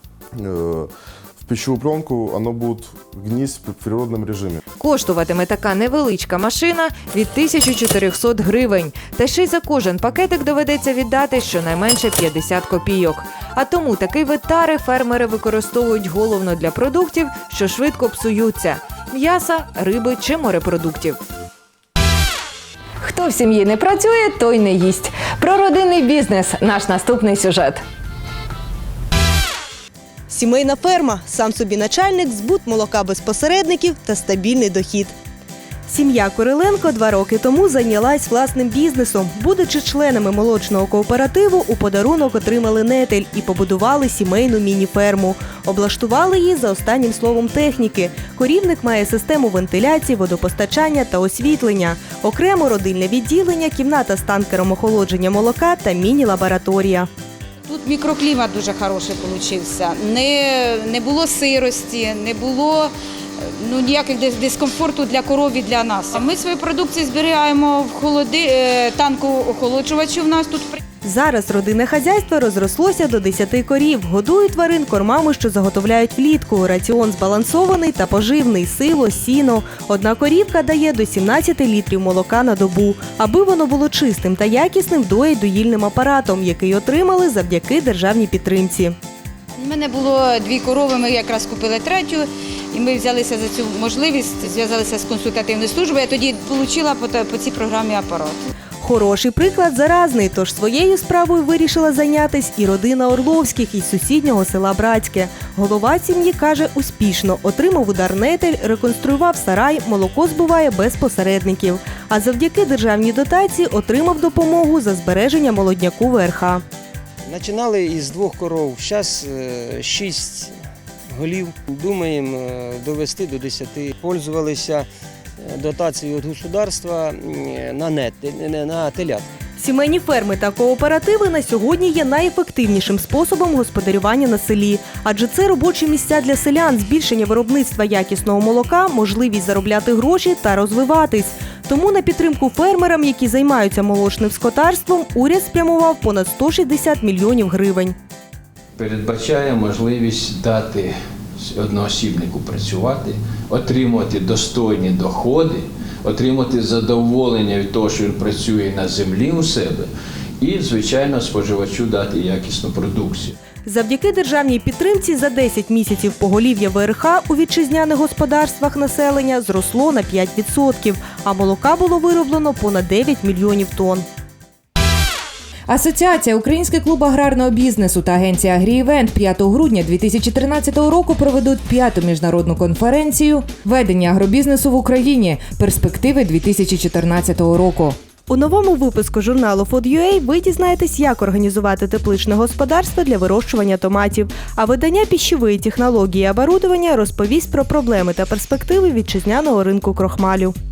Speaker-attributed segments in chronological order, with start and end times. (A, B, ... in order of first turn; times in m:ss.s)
0:00.4-0:04.6 A
0:04.8-0:21.2 B
0:23.0-0:27.8 B
0:30.3-0:35.2 C
0:35.9-0:57.1 C
0:57.7-1:02.9 D
1:03.6-1:10.8 D
1:11.0-1:29.0 C
1:29.6-1:38.4 D
1:38.8-1:56.6 C
1:57.2-2:00.6 E
2:01.1-2:09.3 E
2:09.6-2:28.0 C
2:28.8-2:39.9 F
2:40.4-2:43.4 F
2:43.6-2:54.1 C
2:55.7-3:08.0 B
3:08.3-3:20.6 C